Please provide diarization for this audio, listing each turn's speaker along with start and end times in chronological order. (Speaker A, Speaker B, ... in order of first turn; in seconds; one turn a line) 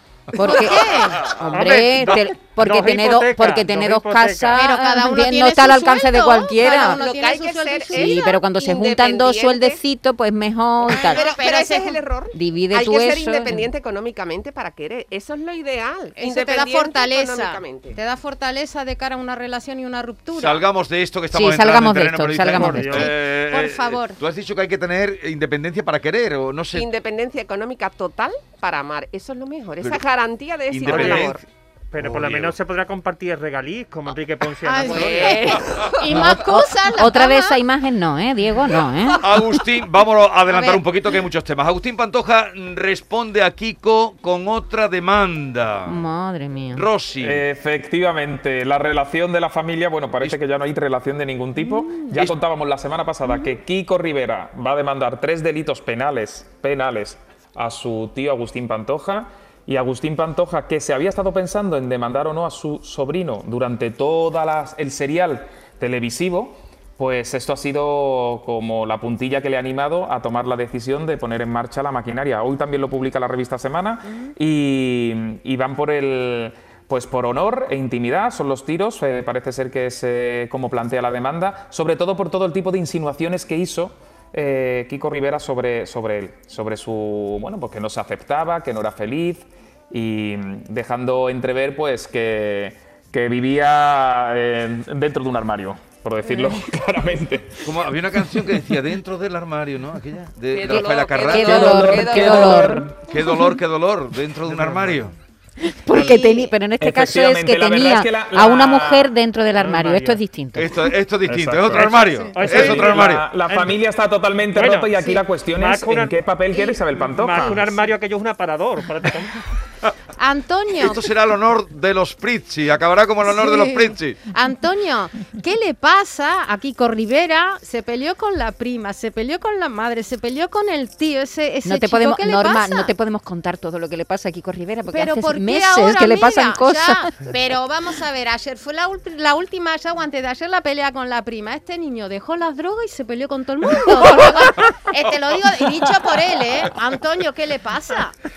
Speaker A: 0.3-7.0
Speaker B: 0.4-1.3
Speaker C: 1.5-4.6
Speaker B: 4.5-8.3
Speaker D: 6.6-9.8
Speaker A: 7.9-11.2
Speaker B: 10.8-12.0
Speaker D: 10.9-18.0
Speaker A: 12.3-13.7
Speaker B: 16.2-20.6
Speaker E: 20.3-26.9
Speaker A: 21.3-23.1
Speaker C: 22.5-23.1
Speaker B: 23.0-24.2
Speaker D: 26.7-31.4
Speaker E: 30.7-31.4
Speaker C: 30.9-31.3
Speaker C: 31.9-35.5
Speaker E: 32.0-32.5
Speaker B: 34.6-37.6
Speaker D: 34.8-36.2
Speaker A: 36.1-39.2
Speaker E: 39.2-46.0
Speaker B: 40.5-40.8
Speaker A: 45.9-46.8
Speaker E: 46.7-47.4
Speaker F: 47.2-97.8
Speaker E: 97.6-105.1
Speaker D: 100.5-102.8
Speaker A: 100.7-102.9
Speaker F: 101.4-103.0
Speaker C: 104.5-105.0
Speaker A: 105.6-110.9
Speaker B: 105.9-106.5
Speaker F: 106.8-109.1
Speaker C: 109.5-110.2
Speaker E: 110.5-113.2
Speaker F: 111.2-117.7
Speaker C: 112.3-113.8
Speaker C: 114.5-116.2
Speaker B: 116.5-116.8
Speaker C: 117.0-119.5
Speaker B: 120.2-121.1
Speaker E: 120.8-124.2
Speaker B: 123.3-132.9
Speaker A: 131.6-137.2
Speaker B: 134.9-148.1